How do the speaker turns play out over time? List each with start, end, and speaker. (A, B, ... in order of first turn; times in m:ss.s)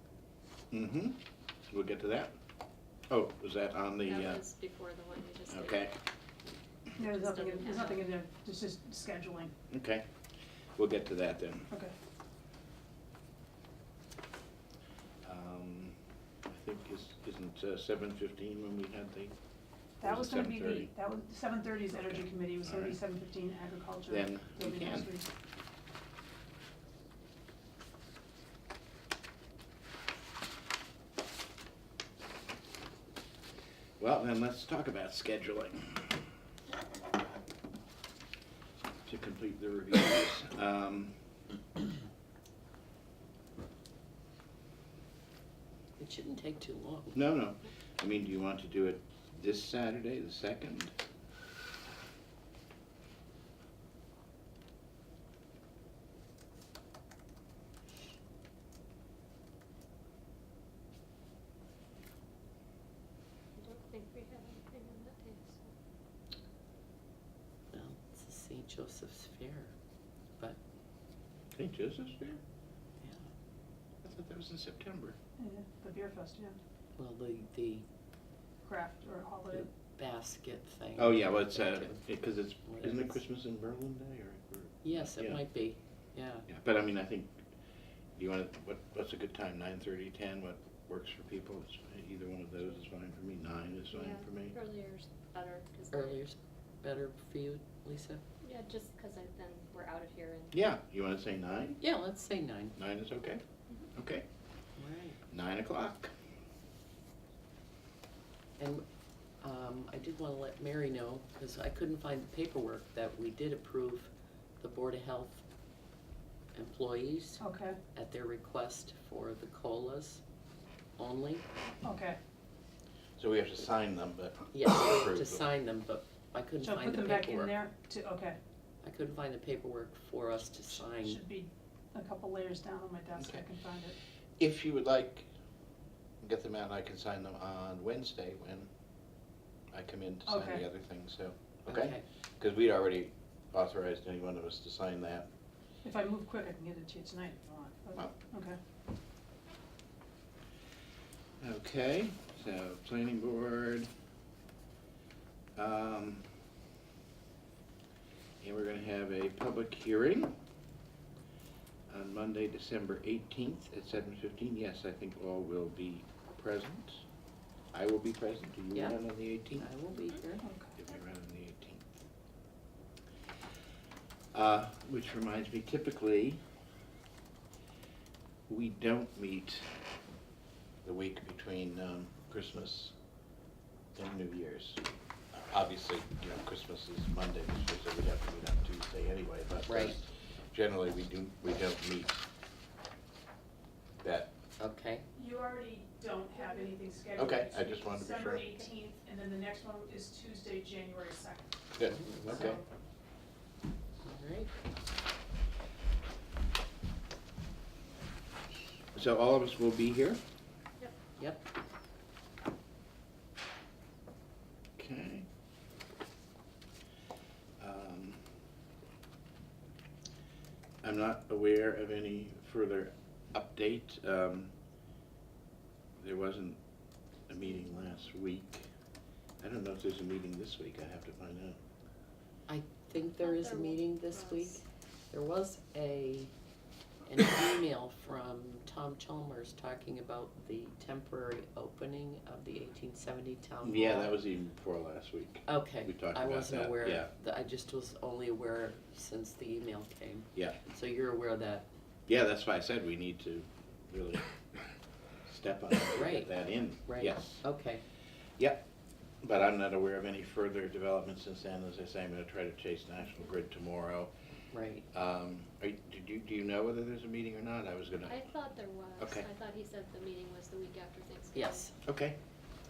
0:00.7-0:02.3 A
0:03.1-0:04.4 A
0:04.0-0:05.9 B
0:05.5-0:06.0 A
0:07.0-0:08.1 B
0:07.0-0:09.5 C
0:09.7-0:10.1 A
0:10.8-0:11.7 A
0:15.2-0:16.0 A
0:16.5-0:19.4 A
0:20.0-0:25.3 C
0:20.0-0:20.9 A
0:21.9-0:23.0 A
0:24.1-0:25.1 A
0:34.0-0:36.2 A
0:39.0-0:41.2 A
0:46.0-0:47.2 D
0:47.1-0:50.9 A
1:03.6-1:05.7 B
1:07.7-1:09.7 D
1:11.5-1:12.4 A
1:13.0-1:13.3 D
1:14.0-1:15.2 A
1:15.4-1:16.6 C
1:17.0-1:17.8 D
1:18.6-1:19.7 C
1:19.5-1:22.0 D
1:21.0-1:25.4 A
1:22.7-1:23.2 D
1:24.8-1:26.5 D
1:26.5-1:27.4 A
1:28.2-1:34.6 A
1:33.9-1:36.2 B
1:35.9-1:38.2 D
1:38.4-1:40.5 B
1:40.5-1:41.8 A
1:41.8-1:42.8 D
1:42.8-1:43.4 A
1:44.0-1:44.2 A
1:44.8-1:45.2 D
1:45.3-1:46.1 A
1:48.6-1:48.8 D
1:49.4-1:55.4 D
1:56.6-1:57.4 D
1:57.4-1:57.8 C
1:58.0-2:00.2 D
2:01.0-2:01.4 D
2:01.8-2:02.2 C
2:03.2-2:05.5 A
2:04.5-2:07.5 D
2:06.6-2:08.4 C
2:08.8-2:11.2 D
2:11.0-2:14.0 C
2:13.2-2:13.4 A
2:14.4-2:15.3 A
2:16.2-2:18.7 A
2:19.7-2:25.3 A
2:20.3-2:20.6 C
2:21.7-2:22.0 D
2:25.8-2:28.6 C
2:31.4-2:33.9 A
2:35.6-2:36.3 A
2:38.4-2:40.4 A
2:41.9-2:47.0 A
2:47.7-2:49.7 A
2:48.7-2:49.0 D
2:49.5-2:50.5 D
2:50.4-2:50.8 C
2:50.8-2:51.9 A
2:54.3-2:56.4 A
2:58.5-2:59.7 A
3:00.8-3:02.9 A
3:04.0-3:04.8 A
3:05.3-3:12.2 A
3:09.7-3:10.0 D
3:14.0-3:14.3 A
3:14.6-3:15.1 D
3:15.1-3:21.6 C
3:17.2-3:18.5 A
3:21.7-3:22.6 A
3:21.8-3:22.6 D
3:22.3-3:22.6 C
3:24.0-3:24.5 D
3:28.9-3:30.2 A
3:31.2-3:31.4 D
3:34.8-3:35.3 A
3:37.6-3:38.2 A
3:40.8-3:44.5 A
3:46.0-3:46.6 A
3:47.3-3:48.7 A
3:49.4-3:51.6 A
3:52.5-3:56.3 D
3:53.1-3:54.6 B
3:57.1-4:04.2 D
4:03.6-4:07.1 A
4:05.5-4:11.7 D
4:12.1-4:14.3 A
4:15.3-4:17.4 A
4:15.9-4:17.8 D
4:18.4-4:18.6 A
4:19.2-4:24.1 A
4:24.5-4:24.9 D
4:24.9-4:28.2 A
4:28.1-4:31.7 B
4:29.0-4:29.2 A
4:31.3-4:31.7 D
4:31.8-4:32.2 A